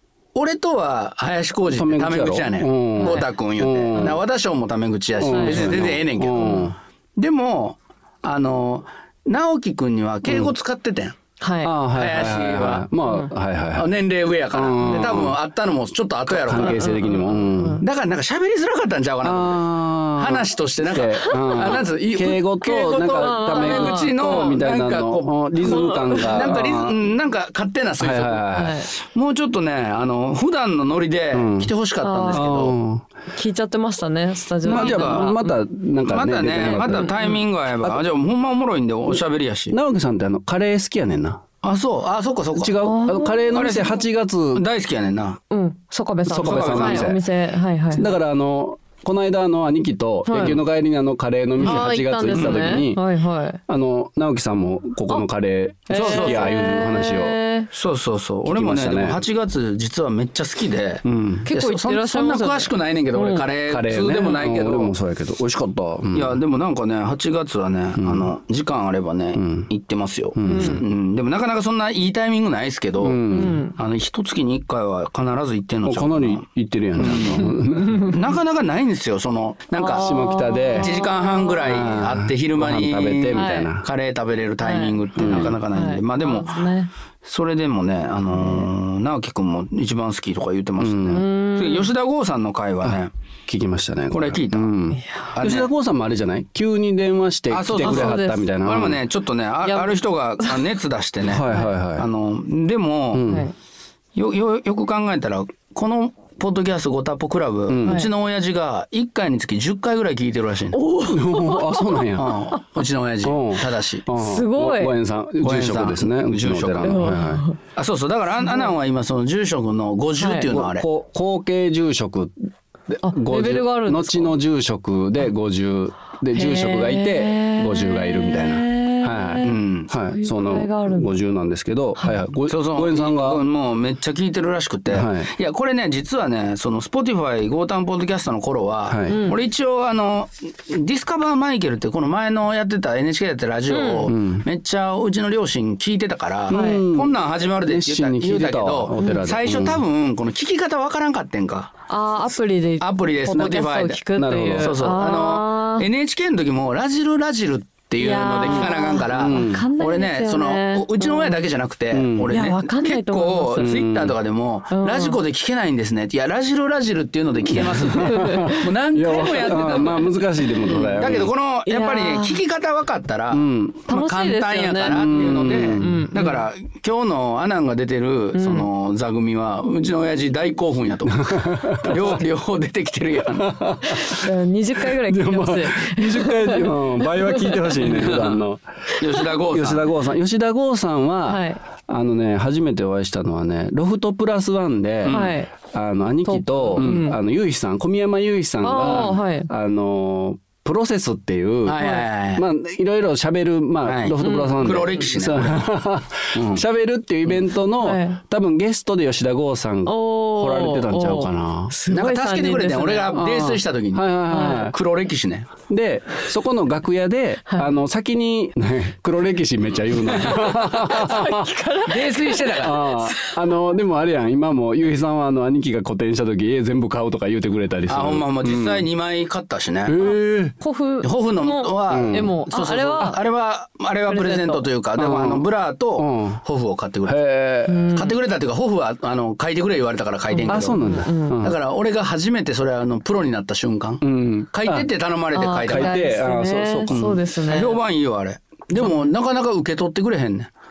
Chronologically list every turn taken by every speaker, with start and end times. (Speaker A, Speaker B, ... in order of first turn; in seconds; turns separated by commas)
Speaker A: 0.3-11.2, Speaker B: 1.7-4.2, Speaker C: 3.0-3.3, Speaker B: 5.2-6.8, Speaker C: 5.2-5.8, Speaker B: 10.3-10.5, Speaker C: 11.4-11.7, Speaker B: 11.6-13.9, Speaker A: 11.9-12.9, Speaker C: 13.0-13.3, Speaker A: 13.7-16.9, Speaker B: 14.5-15.4, Speaker B: 16.3-17.8, Speaker C: 16.5-17.8, Speaker A: 17.8-32.8, Speaker B: 19.2-27.0, Speaker C: 21.3-21.8, Speaker C: 23.0-24.6, Speaker C: 25.6-26.6, Speaker B: 28.0-28.8, Speaker C: 28.5-28.9, Speaker B: 31.3-31.7, Speaker C: 32.0-32.5, Speaker B: 32.3-33.0, Speaker C: 33.3-35.6, Speaker B: 34.6-38.0, Speaker A: 34.6-35.3, Speaker A: 36.0-39.8, Speaker C: 36.6-37.4, Speaker B: 39.1-41.4, Speaker A: 41.6-42.8, Speaker B: 42.5-44.6, Speaker C: 42.8-43.7, Speaker A: 43.5-44.0, Speaker A: 44.5-45.4, Speaker C: 45.5-48.1, Speaker B: 46.2-47.2, Speaker A: 46.3-47.2, Speaker B: 47.9-53.0, Speaker C: 50.3-50.6, Speaker C: 51.6-53.6, Speaker A: 51.6-52.8, Speaker B: 53.7-57.4, Speaker C: 55.9-57.7, Speaker A: 55.9-56.7, Speaker A: 57.7-64.9, Speaker B: 58.4-59.2, Speaker B: 61.0-61.4, Speaker C: 61.4-63.5, Speaker B: 63.6-66.4, Speaker A: 66.1-76.4, Speaker B: 68.0-68.3, Speaker B: 69.3-69.7, Speaker B: 70.3-70.8, Speaker C: 70.5-70.8, Speaker B: 73.0-73.6, Speaker C: 73.3-73.7, Speaker B: 75.8-78.2, Speaker A: 77.0-86.7, Speaker C: 77.8-78.1, Speaker C: 79.8-81.7, Speaker B: 79.8-81.0, Speaker B: 81.6-83.8, Speaker C: 83.3-83.7, Speaker C: 84.6-86.9, Speaker B: 85.2-85.6, Speaker A: 87.2-93.1, Speaker C: 88.3-88.7, Speaker B: 90.8-91.2, Speaker C: 91.1-91.9, Speaker B: 92.8-99.0, Speaker A: 94.1-94.7, Speaker C: 95.0-95.3, Speaker A: 95.3-95.7, Speaker A: 97.5-103.3, Speaker C: 97.8-98.5, Speaker C: 99.7-100.6, Speaker B: 101.2-102.1, Speaker B: 103.1-103.5, Speaker C: 103.2-103.5, Speaker A: 104.1-110.8, Speaker B: 107.7-108.1, Speaker C: 107.8-108.1, Speaker C: 110.7-112.3, Speaker B: 111.1-112.4, Speaker A: 112.1-114.1, Speaker B: 113.2-117.4, Speaker C: 114.1-114.9, Speaker A: 115.4-117.1, Speaker C: 116.8-117.6, Speaker A: 117.8-120.9, Speaker C: 118.4-118.7, Speaker C: 120.2-120.5, Speaker B: 120.5-122.3, Speaker B: 122.9-133.4, Speaker C: 123.0-124.3, Speaker C: 126.3-131.1, Speaker A: 129.4-129.9, Speaker C: 132.0-132.2, Speaker A: 132.5-151.7, Speaker B: 134.9-135.3, Speaker B: 138.9-139.2, Speaker C: 139.1-139.4, Speaker C: 143.7-144.1, Speaker B: 144.1-144.4, Speaker B: 146.5-149.8, Speaker C: 146.5-146.8, Speaker C: 149.0-149.3, Speaker C: 151.9-155.9, Speaker A: 152.8-154.0, Speaker B: 154.2-154.8, Speaker A: 154.6-183.6, Speaker C: 158.0-161.5, Speaker B: 158.4-159.7, Speaker B: 161.9-162.3, Speaker C: 162.3-163.8, Speaker B: 163.6-164.2, Speaker C: 164.7-165.2, Speaker B: 167.4-171.3, Speaker C: 168.0-168.7, Speaker C: 170.6-170.9, Speaker C: 171.7-172.4, Speaker B: 173.3-173.8, Speaker C: 173.9-176.4, Speaker B: 174.8-176.0, Speaker C: 178.3-178.7, Speaker B: 181.1-182.2, Speaker B: 183.3-184.2, Speaker C: 183.9-188.1, Speaker B: 184.9-188.6, Speaker A: 187.8-188.4, Speaker A: 188.9-189.9, Speaker B: 189.2-211.7, Speaker C: 191.3-191.6, Speaker A: 195.0-195.3, Speaker C: 195.1-195.5, Speaker C: 196.2-197.2, Speaker A: 196.8-197.1, Speaker C: 198.6-199.5, Speaker A: 198.8-199.1, Speaker A: 201.7-202.4, Speaker A: 203.8-205.7, Speaker C: 204.2-205.0, Speaker A: 206.3-206.6, Speaker C: 207.8-208.2, Speaker C: 209.8-213.2, Speaker A: 211.9-215.5, Speaker B: 213.1-214.8, Speaker C: 214.3-214.7, Speaker B: 215.7-221.6, Speaker C: 220.2-223.4, Speaker A: 220.3-221.0, Speaker A: 221.8-222.9, Speaker B: 222.6-228.8, Speaker A: 227.9-230.0, Speaker B: 229.8-230.6, Speaker C: 230.0-233.2, Speaker A: 231.0-237.2, Speaker B: 231.9-232.3, Speaker C: 234.1-234.7, Speaker B: 235.0-236.4, Speaker B: 237.1-237.9, Speaker C: 237.7-238.2, Speaker A: 237.9-246.0, Speaker C: 240.3-241.4, Speaker B: 240.5-241.6, Speaker B: 244.0-244.9, Speaker C: 245.3-247.8, Speaker B: 245.6-247.0, Speaker A: 246.9-250.5, Speaker C: 248.8-249.1